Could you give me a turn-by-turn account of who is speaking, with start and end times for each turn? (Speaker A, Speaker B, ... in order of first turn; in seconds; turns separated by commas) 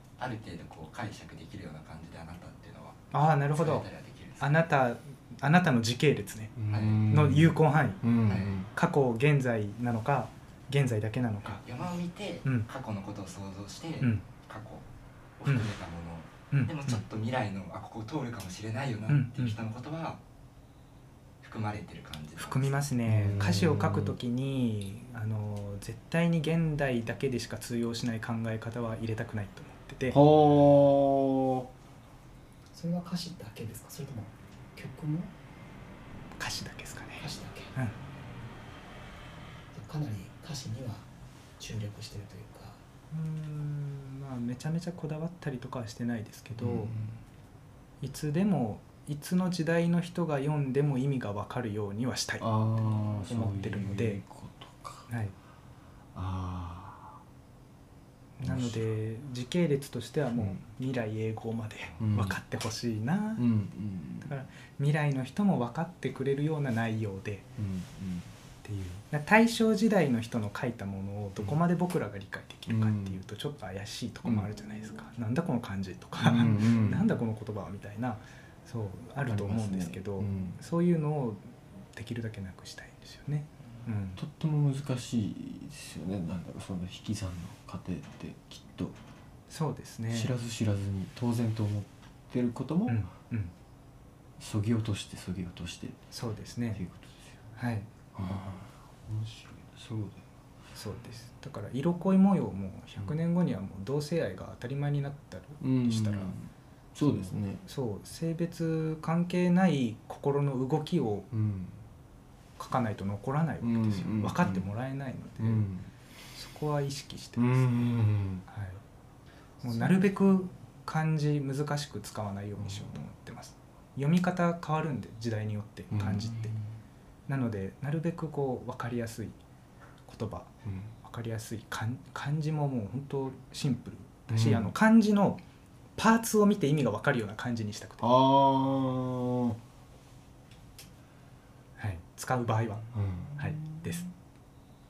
Speaker A: 0.2-4.5, Speaker B: 3.1-3.9, Speaker B: 4.4-6.5, Speaker C: 6.5-8.7, Speaker A: 6.7-7.0, Speaker B: 7.1-8.0, Speaker A: 8.2-8.6, Speaker B: 8.7-11.6, Speaker A: 11.4-14.8, Speaker A: 15.4-20.2, Speaker B: 16.5-17.0, Speaker B: 19.1-19.6, Speaker A: 21.4-22.8, Speaker B: 22.4-30.2, Speaker C: 23.1-24.2, Speaker C: 30.1-31.7, Speaker D: 32.7-35.3, Speaker B: 36.4-37.9, Speaker D: 37.2-37.7, Speaker D: 39.7-41.1, Speaker D: 41.6-42.8, Speaker B: 43.1-46.9, Speaker C: 46.5-47.1, Speaker B: 48.0-52.5, Speaker C: 52.4-55.1, Speaker B: 53.2-54.2, Speaker B: 55.1-55.3, Speaker C: 56.1-57.2, Speaker B: 58.4-63.4, Speaker C: 58.4-58.9, Speaker C: 62.0-62.4, Speaker C: 63.4-64.3, Speaker B: 64.2-67.4, Speaker C: 67.6-68.3, Speaker B: 68.6-84.2, Speaker C: 72.7-73.2, Speaker C: 74.2-74.5, Speaker C: 76.2-77.1, Speaker C: 79.3-80.6, Speaker C: 84.2-89.0, Speaker B: 89.5-90.3, Speaker C: 90.1-93.0, Speaker B: 92.9-93.5, Speaker C: 94.4-96.0, Speaker B: 96.1-96.8, Speaker C: 96.7-97.4, Speaker B: 97.6-97.9, Speaker C: 98.1-100.2, Speaker B: 100.7-106.3, Speaker C: 105.6-107.6, Speaker B: 107.0-111.3, Speaker C: 111.3-111.8, Speaker B: 112.6-115.6, Speaker C: 113.6-114.7, Speaker C: 115.4-115.9, Speaker B: 116.3-118.8, Speaker C: 117.3-118.4, Speaker D: 119.6-120.5, Speaker B: 119.6-126.5, Speaker C: 122.6-123.0, Speaker C: 125.9-126.3, Speaker D: 126.0-126.8, Speaker B: 127.3-129.4, Speaker B: 130.1-130.5, Speaker C: 130.6-130.9, Speaker B: 131.0-135.4, Speaker C: 134.3-134.7, Speaker B: 135.9-138.0, Speaker C: 138.0-139.6, Speaker B: 141.8-142.9, Speaker C: 142.9-144.1, Speaker B: 143.4-144.0